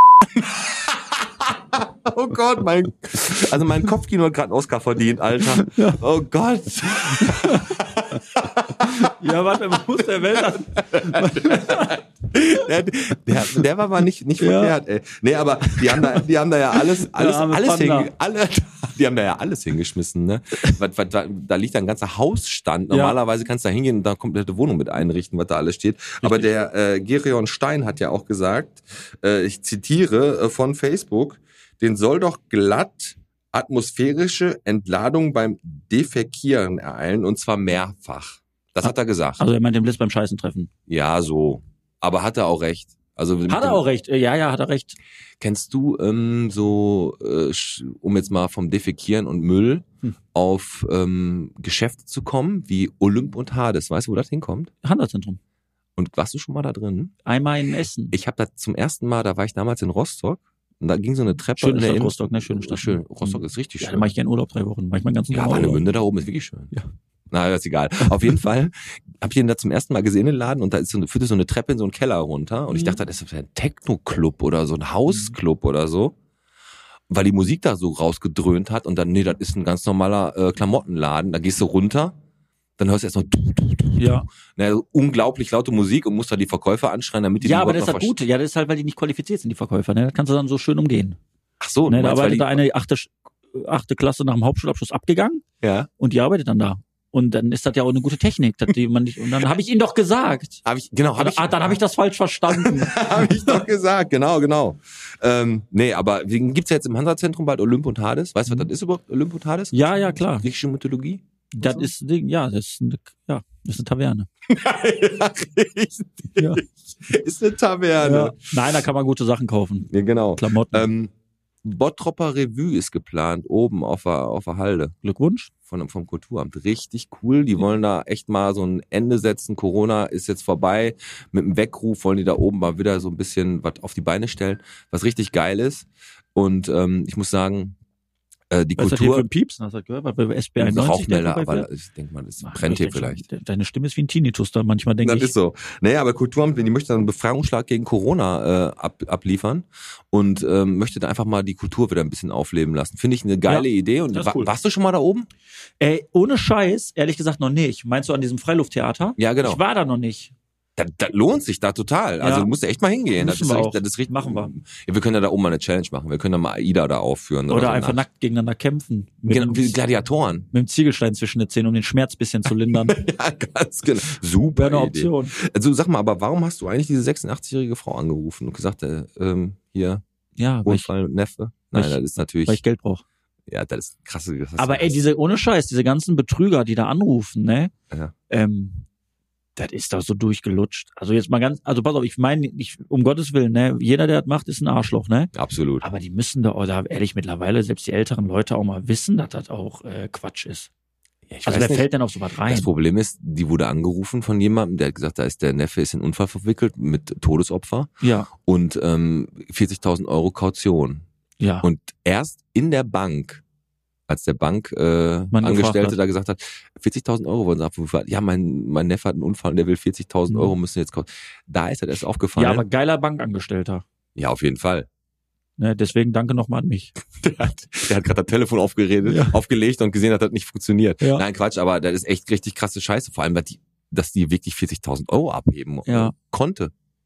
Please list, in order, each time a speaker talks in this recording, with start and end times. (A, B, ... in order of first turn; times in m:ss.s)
0:00.4-0:09.1 A
0:05.6-0:06.0 B
0:07.0-0:07.8 B
0:08.8-0:12.0 B
0:10.3-0:39.4 A
0:14.4-0:14.8 B
0:15.7-0:16.2 B
0:17.0-0:18.1 B
0:22.9-0:23.2 B
0:26.2-0:26.5 B
0:38.8-0:40.7 B
0:40.9-0:43.8 A
0:43.5-0:45.0 B
0:45.4-0:54.7 A
0:54.8-0:55.4 B
0:56.0-0:57.2 A
0:57.2-0:58.2 B
0:58.1-1:04.1 A
1:01.6-1:05.8 B
1:05.3-1:06.7 A
1:07.3-1:16.2 A
1:17.1-1:22.2 A
1:22.8-1:28.2 A
1:24.0-1:24.2 B
1:27.4-1:31.2 B
1:31.6-1:32.6 A
1:31.9-1:35.4 B
1:35.6-1:35.9 A
1:36.0-1:40.6 B
1:40.6-1:41.8 A
1:41.2-1:43.6 B
1:42.5-1:51.9 A
1:49.7-1:50.5 B
1:51.5-1:54.3 B
1:54.5-1:58.5 A
1:56.4-1:56.6 B
1:58.0-2:00.9 B
1:59.9-2:01.1 A
2:01.6-2:04.9 A
2:05.0-2:05.5 B
2:05.7-2:17.8 A
2:18.5-2:19.3 A
2:18.8-2:21.7 B
2:20.6-2:23.2 A
2:22.4-2:25.3 B
2:25.0-2:35.3 A
2:33.5-2:34.5 B
2:35.8-2:40.3 B
2:39.2-2:39.6 A
2:40.8-2:48.0 A
2:42.2-2:42.5 B
2:43.2-2:44.5 B
2:47.5-2:49.8 B
2:49.3-2:50.5 A
2:50.5-2:53.0 B
2:52.9-3:00.0 A
2:54.6-2:55.4 B
3:00.4-3:00.9 B
3:00.6-3:02.6 A
3:01.7-3:03.0 B
3:03.5-3:04.9 A
3:04.6-3:07.7 B
3:08.3-3:08.8 B
3:09.6-3:20.7 B
3:15.3-3:15.8 A
3:21.3-3:21.9 A
3:21.4-3:22.7 B
3:22.5-3:31.0 A
3:28.0-3:28.3 B
3:31.4-3:31.7 B
3:31.6-3:33.4 A
3:34.1-3:42.7 A
3:35.3-3:36.0 B
3:42.4-3:43.8 B
3:44.2-3:44.9 A
3:45.6-3:47.0 B
3:47.2-3:56.7 A
3:49.0-3:49.4 B
3:55.9-3:56.1 B